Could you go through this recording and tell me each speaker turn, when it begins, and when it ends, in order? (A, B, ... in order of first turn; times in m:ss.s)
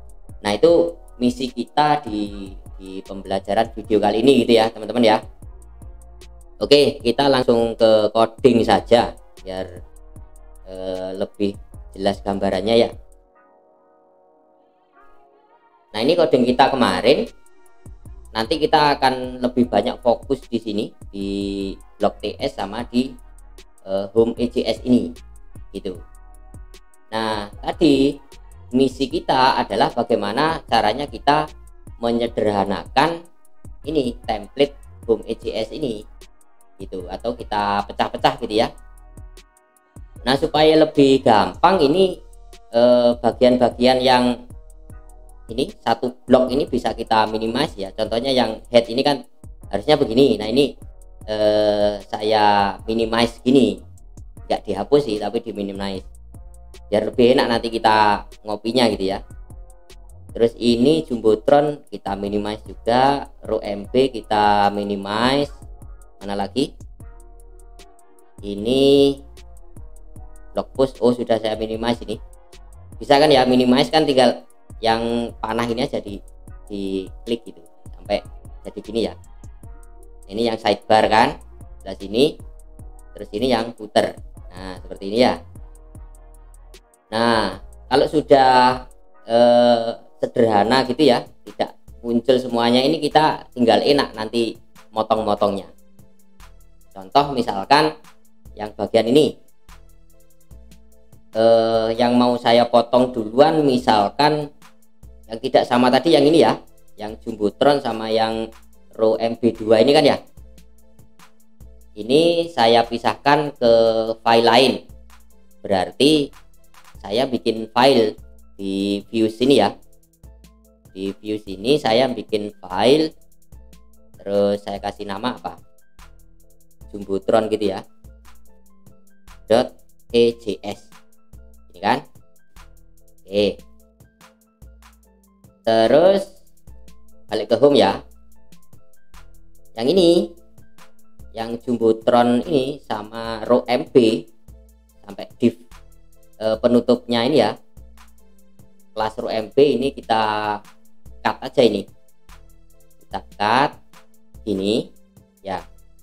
0:00.4-0:05.2 A
0:06.6-0:09.7 A
0:10.7-0:12.9 A
0:15.9-0:17.2 A
0:18.3-0:23.1 A
0:23.8-0:25.1 A
0:25.7-0:26.0 A
0:27.1-0:28.1 A
0:28.8-0:31.4 A
0:32.0-0:33.2 A
0:33.8-0:36.0 A
0:36.8-0:38.7 A
0:40.2-0:42.2 A
0:42.7-0:44.3 A
0:45.5-0:49.2 A
0:49.7-0:50.7 A
0:51.3-0:53.8 A
0:54.5-0:56.0 A
0:56.9-0:59.2 A
1:00.3-1:05.5 A
1:06.2-1:06.7 A
1:08.4-1:09.2 A
1:10.5-1:12.2 A
1:13.0-1:16.2 A
1:16.7-1:19.1 A
1:20.3-1:22.4 A
1:23.1-1:25.4 A
1:27.1-1:35.7 A
1:36.9-1:37.9 A
1:38.6-1:39.3 A
1:41.4-1:44.4 A
1:45.3-1:48.3 A
1:49.0-1:50.2 A
1:52.0-1:54.8 A
1:55.6-1:56.2 A
1:57.0-1:59.7 A
2:00.9-2:03.1 A
2:04.2-2:05.6 A
2:06.9-2:07.8 A
2:09.5-2:10.9 A
2:11.7-2:12.0 A
2:13.2-2:13.6 A
2:15.6-2:16.3 A
2:17.3-2:18.0 A
2:19.8-2:20.3 A
2:21.3-2:24.2 A
2:25.0-2:25.6 A
2:26.4-2:27.5 A
2:28.9-2:30.6 A
2:31.2-2:31.8 A
2:33.1-2:33.7 A
2:34.4-2:34.9 A